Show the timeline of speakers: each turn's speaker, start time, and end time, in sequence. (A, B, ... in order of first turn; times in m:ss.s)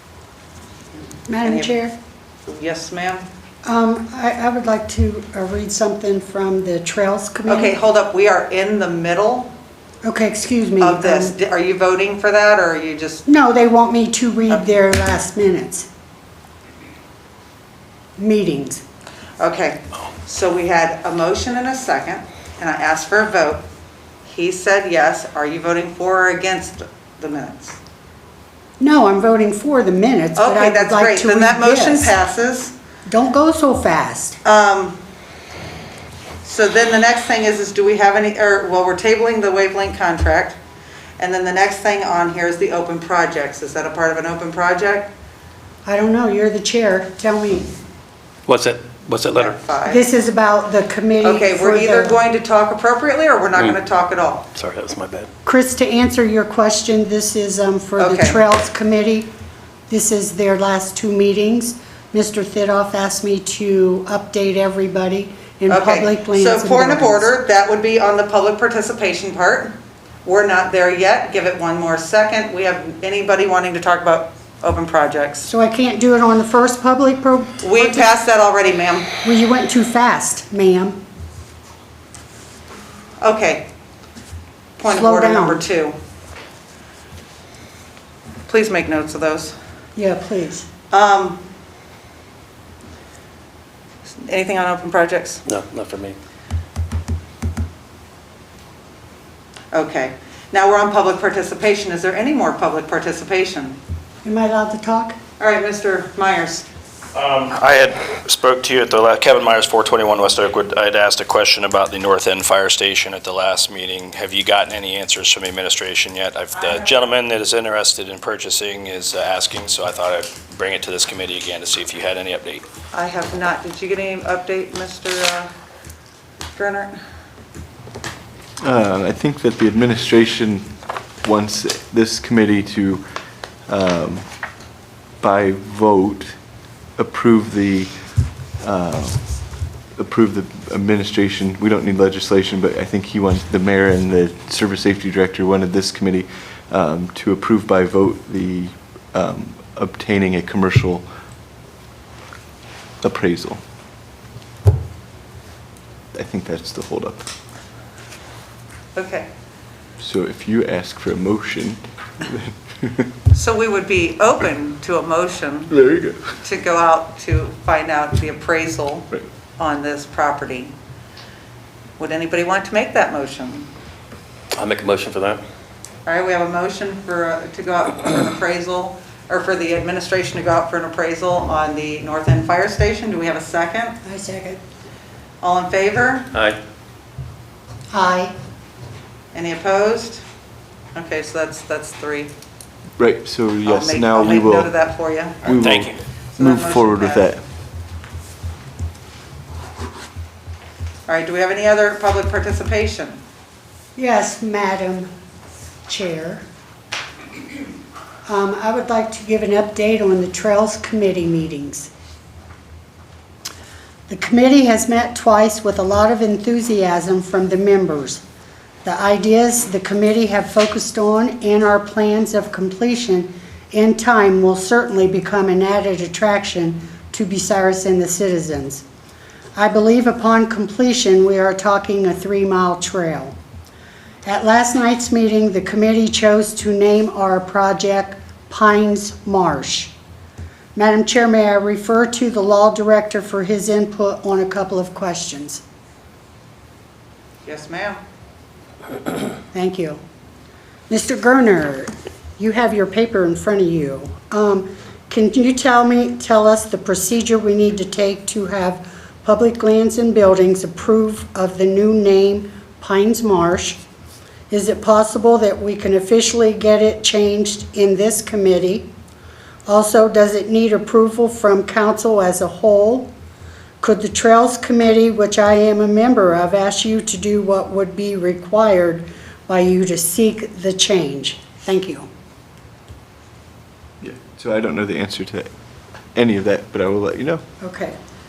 0:01.3-0:01.9 A
0:01.4-0:01.7 B
0:02.5-0:03.2 B
0:03.6-0:07.7 A
0:07.5-0:09.5 B
0:10.0-0:11.3 A
0:10.8-0:13.2 B
0:13.2-0:15.9 A
0:18.2-0:18.8 A
0:19.4-0:23.7 B
0:24.2-0:27.8 B
0:28.8-0:32.2 A
0:30.4-0:32.7 B
0:33.1-0:34.4 A
0:34.4-0:35.0 B
0:36.4-0:40.6 B
0:41.2-0:45.1 B
0:45.8-0:47.7 A
0:48.5-0:49.5 C
0:49.3-0:50.0 B
0:49.8-0:52.2 A
0:51.2-0:54.5 B
0:54.5-0:55.3 C
0:55.4-0:59.3 A
0:58.0-0:58.4 B
0:59.9-1:07.3 A
1:05.7-1:15.5 B
1:15.4-1:18.1 A
1:17.6-1:19.1 B
1:19.2-1:21.0 A
1:23.2-1:23.7 B
1:24.8-1:26.0 B
1:24.8-1:25.6 A
1:28.5-1:29.5 B
1:30.0-1:30.7 A
1:30.9-1:31.4 B
1:34.1-1:35.4 B
1:35.4-1:36.2 C
1:39.7-1:43.8 B
1:44.2-1:45.2 A
1:45.4-1:46.7 B
1:47.1-2:02.6 D
1:56.6-1:57.0 B
2:02.9-2:05.5 B
2:06.6-2:06.9 B
2:08.6-2:10.7 E
2:11.2-2:13.0 E
2:13.7-2:14.3 E
2:15.2-2:16.3 E
2:17.0-2:17.9 E
2:18.6-2:19.3 E
2:20.0-2:31.0 E
2:33.0-2:33.6 E
2:36.1-2:37.3 E
2:38.9-2:39.3 B
2:40.0-2:43.1 E
2:43.3-2:45.8 B
2:45.7-2:46.2 E
2:46.4-2:50.7 B
2:52.0-2:53.7 B
2:54.5-2:55.4 C
2:56.0-3:04.0 B
3:04.0-3:04.6 A
3:05.4-3:06.3 B
3:06.3-3:06.6 C
3:07.9-3:08.3 A
3:09.3-3:10.2 B
3:10.9-3:12.3 B
3:13.0-3:14.7 E
3:13.6-3:15.8 B
3:15.4-3:17.4 E
3:15.6-3:16.0 D
3:16.3-3:17.3 B
3:21.1-3:23.2 B
3:24.0-3:25.1 A
3:25.9-3:26.4 A
3:28.3-3:31.9 A
3:34.1-3:38.2 A
3:38.8-3:48.8 A
3:49.6-3:53.4 A
3:54.2-3:59.9 A
4:00.7-4:05.6 A
4:07.4-4:08.0 B
4:09.5-4:10.0 A
4:10.9-4:23.8 A
4:24.5-4:28.9 A
4:29.7-4:33.1 A
4:33.8-4:42.1 A
4:44.0-4:45.5 E
4:46.1-4:47.4 E
4:47.6-4:48.0 A